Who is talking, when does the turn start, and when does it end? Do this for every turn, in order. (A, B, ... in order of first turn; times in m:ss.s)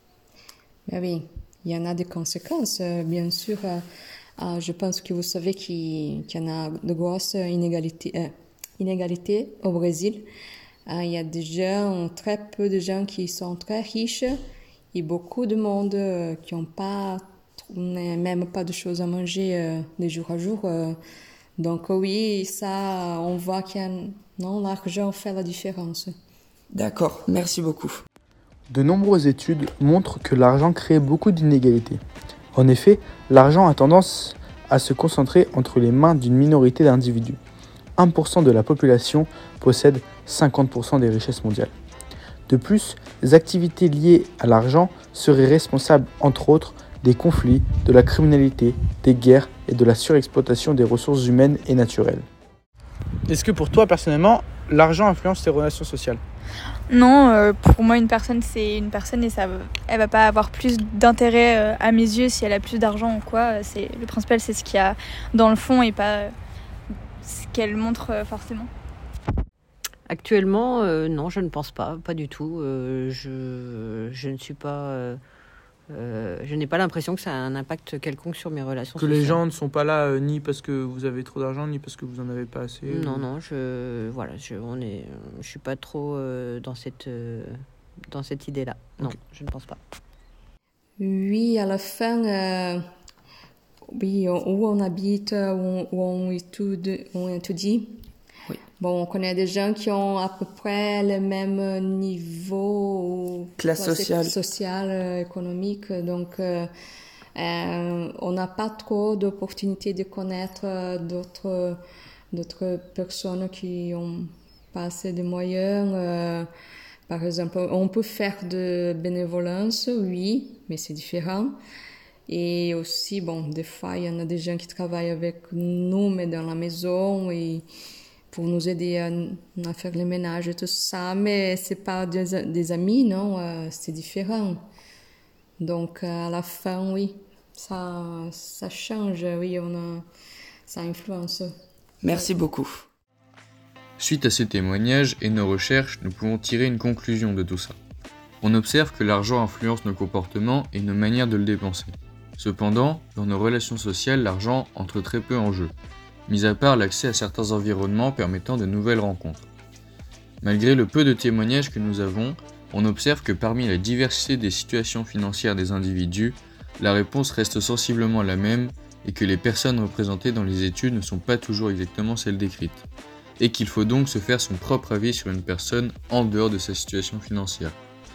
0:00.9-0:03.8 A
0:04.4-0:10.2 A
0:10.9-0:14.4 A
0:14.9-0:21.0 A
0:21.6-0:26.1 A
0:26.7-0:28.0 B
0:28.7-0:32.0 C
0:32.5-0:37.4 C
0:38.0-0:41.7 C
0:42.5-0:52.2 C
0:53.3-0:56.2 C
0:56.9-1:06.3 D
1:07.2-1:08.7 D
1:10.1-1:15.2 E
1:15.9-1:19.4 E
1:19.0-1:23.2 C
1:22.9-1:27.5 E
1:28.1-1:29.8 E
1:31.0-1:32.8 A
1:33.9-1:38.0 A
1:38.8-1:46.7 A
1:43.6-1:44.3 B
1:47.3-1:51.8 A
1:52.3-1:56.5 A
1:57.1-2:01.5 A
2:02.3-2:07.6 A
2:08.3-2:14.6 A
2:15.6-2:20.0 A
2:20.7-2:21.5 A
2:22.0-2:22.8 B
2:24.0-2:27.8 F
2:28.4-2:35.7 F
2:36.3-2:39.5 F
2:40.4-2:52.8 F
2:53.4-2:57.8 F